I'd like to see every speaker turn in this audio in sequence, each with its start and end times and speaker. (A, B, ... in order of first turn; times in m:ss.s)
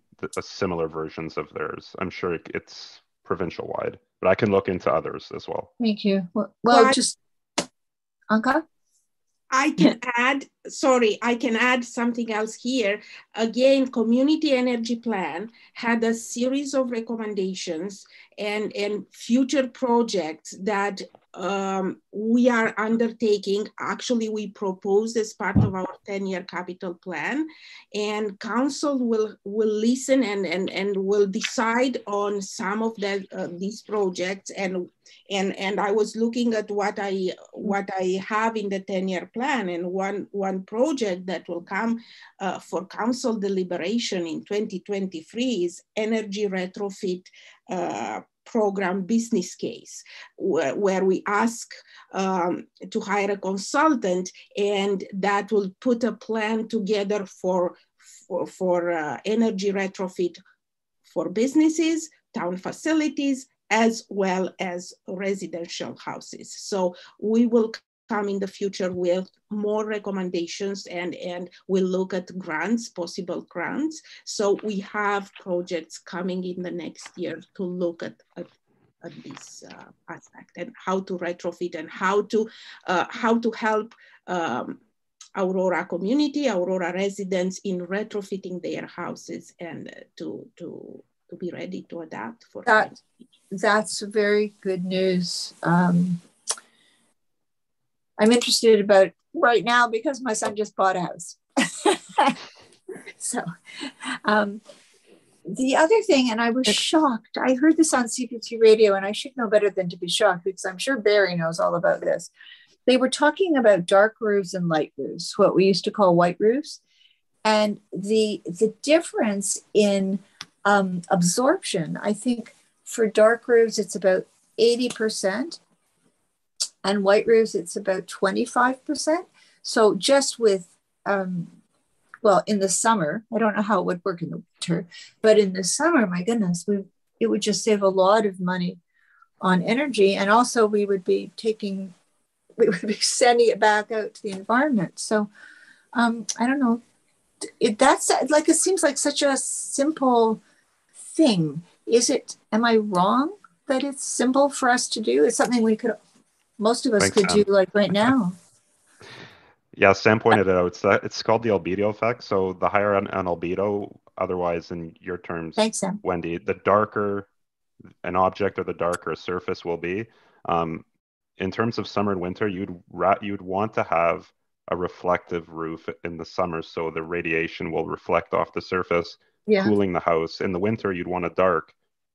0:00.2-0:05.7 A
0:05.8-0:07.2 B
0:06.7-0:07.0 C
0:08.3-0:08.6 B
0:09.5-1:00.4 C
1:01.1-1:18.5 C
1:19.0-1:24.8 C
1:25.4-1:33.0 C
1:33.5-1:36.2 B
1:38.2-1:42.4 B
1:43.2-1:44.6 B
1:45.4-1:52.3 B
1:52.9-1:56.8 B
1:57.4-2:05.6 B
2:06.8-2:11.6 B
2:12.2-2:18.8 B
2:19.4-2:22.0 B
2:22.6-2:25.3 B
2:25.9-2:26.8 B
2:27.4-2:30.4 B
2:31.1-2:36.0 B
2:36.6-2:38.4 B
2:37.0-2:37.4 A
2:39.8-2:47.3 A
2:45.6-2:46.0 B
2:48.0-2:50.8 A
2:51.4-3:01.7 A
2:59.5-2:59.7 B